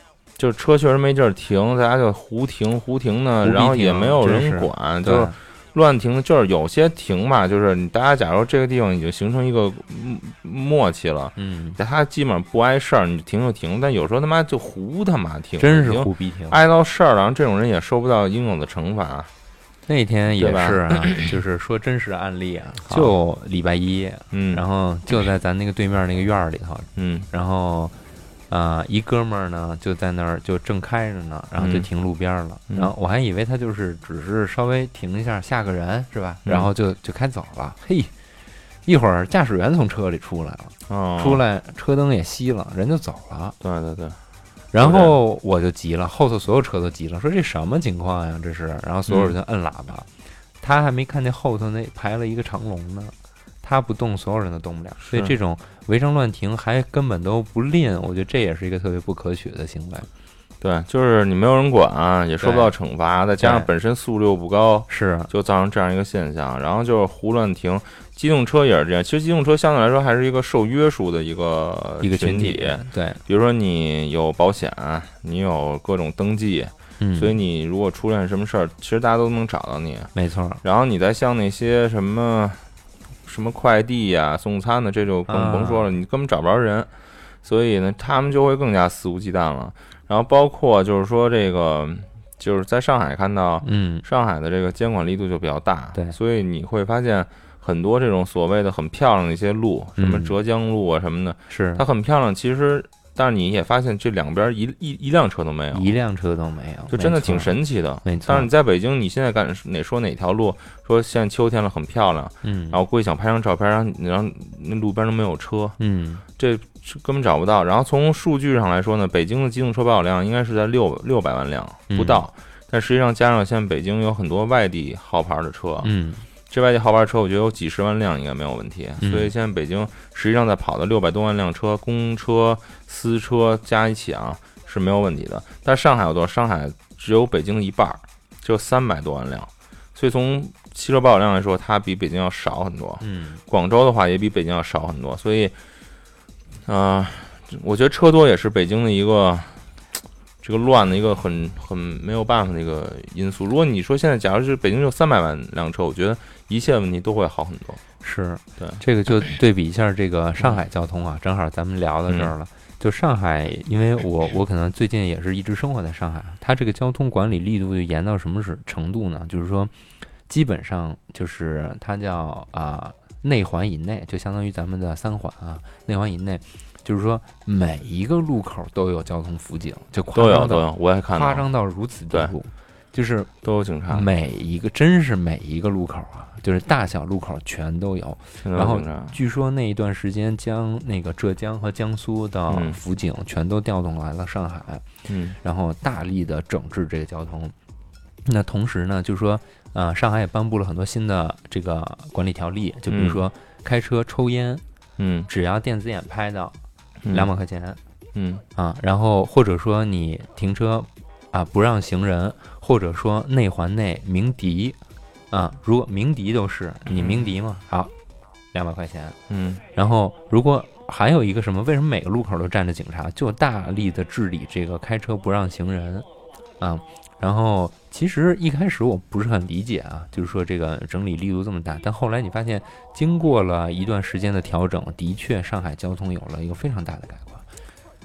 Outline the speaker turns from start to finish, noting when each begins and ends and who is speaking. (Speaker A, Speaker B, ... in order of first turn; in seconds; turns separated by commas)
Speaker A: 0.4-19.3, Speaker B: 3.4-5.3, Speaker B: 11.3-11.8, Speaker B: 15.6-16.6, Speaker B: 19.9-27.9, Speaker A: 20.4-21.2, Speaker A: 22.9-23.1, Speaker A: 24.3-24.6, Speaker A: 26.9-27.3, Speaker B: 28.5-38.1, Speaker A: 31.6-31.9, Speaker A: 36.4-36.7, Speaker B: 38.8-43.5, Speaker A: 40.9-41.4, Speaker A: 43.6-44.2, Speaker B: 44.7-50.1, Speaker A: 44.8-45.1, Speaker A: 49.1-49.3, Speaker B: 50.6-60.1, Speaker A: 55.1-55.3, Speaker A: 60.6-80.1, Speaker B: 62.4-62.7, Speaker B: 63.4-63.7, Speaker B: 64.9-65.3, Speaker B: 72.0-73.2, Speaker B: 77.0-77.3, Speaker B: 80.1-80.6, Speaker A: 80.6-82.6, Speaker A: 83.2-86.9, Speaker B: 85.3-85.9, Speaker A: 87.4-105.9, Speaker B: 93.6-94.0, Speaker B: 100.0-100.4, Speaker B: 101.5-101.8, Speaker B: 105.7-108.5, Speaker A: 106.9-115.8, Speaker B: 112.4-112.8, Speaker B: 115.8-116.2, Speaker A: 116.4-125.9, Speaker B: 121.9-122.2, Speaker B: 125.8-126.2, Speaker A: 126.5-145.5, Speaker B: 129.0-129.3, Speaker B: 143.0-143.4, Speaker A: 146.7-149.6, Speaker A: 150.4-157.8, Speaker B: 158.0-169.7, Speaker B: 170.3-183.3, Speaker A: 180.1-181.4, Speaker A: 183.4-184.1, Speaker B: 183.9-194.8, Speaker A: 188.4-189.1, Speaker A: 192.5-192.8, Speaker A: 195.1-195.4, Speaker B: 195.4-197.5, Speaker B: 198.2-204.6, Speaker A: 202.9-203.2, Speaker A: 205.0-205.3, Speaker B: 205.3-206.6, Speaker A: 207.0-207.3, Speaker B: 207.1-207.8, Speaker A: 208.1-208.4, Speaker B: 208.6-214.8, Speaker B: 215.3-217.9, Speaker A: 216.9-217.3, Speaker B: 218.5-219.2, Speaker A: 219.3-219.6, Speaker B: 219.7-226.1, Speaker B: 226.6-237.4